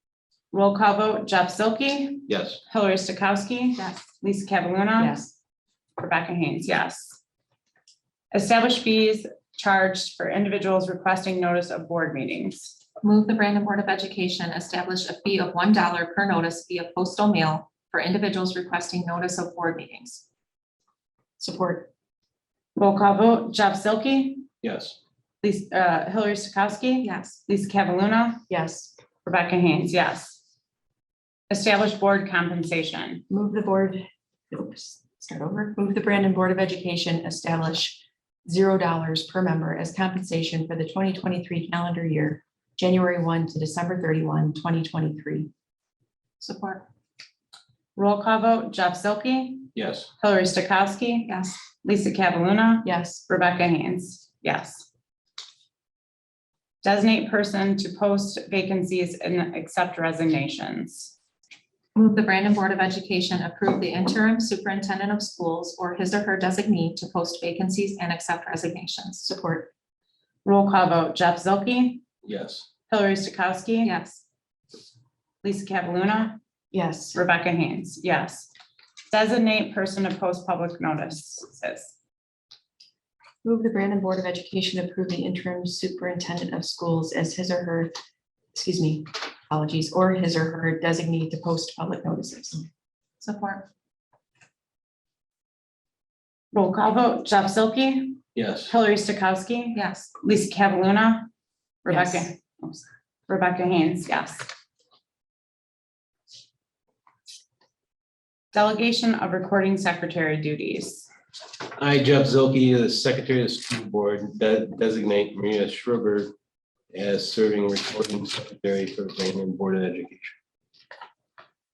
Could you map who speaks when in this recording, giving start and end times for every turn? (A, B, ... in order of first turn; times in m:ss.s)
0:00.5-0:05.2 A
0:02.3-0:02.6 B
0:05.0-0:05.3 C
0:06.0-0:07.2 A
0:08.3-0:12.8 A
0:13.0-0:20.2 D
0:21.4-0:21.9 C
0:22.7-0:24.5 A
0:24.6-0:25.0 B
0:25.4-0:28.4 A
0:27.0-0:27.4 D
0:28.5-0:28.9 C
0:29.2-0:30.4 A
0:31.5-0:33.2 A
0:33.3-0:45.5 C
0:46.4-0:46.9 D
0:48.0-0:54.9 A
0:49.7-0:50.1 B
0:51.3-0:51.6 D
0:52.8-0:53.2 C
0:56.8-1:01.1 A
1:01.9-1:09.2 D
1:09.2-1:09.7 C
1:10.4-1:12.0 A
1:12.2-1:12.6 B
1:12.9-1:13.9 A
1:13.8-1:14.2 D
1:15.4-1:16.4 A
1:16.7-1:17.2 C
1:17.1-1:18.5 A
1:19.1-1:22.0 A
1:23.4-1:27.9 C
1:28.5-1:32.7 C
1:33.2-1:33.7 D
1:36.5-1:41.3 A
1:38.3-1:38.7 B
1:39.7-1:40.1 D
1:41.8-1:44.5 A
1:41.9-1:42.3 C
1:48.5-1:51.1 A
1:51.8-1:56.3 B
1:56.9-2:00.3 B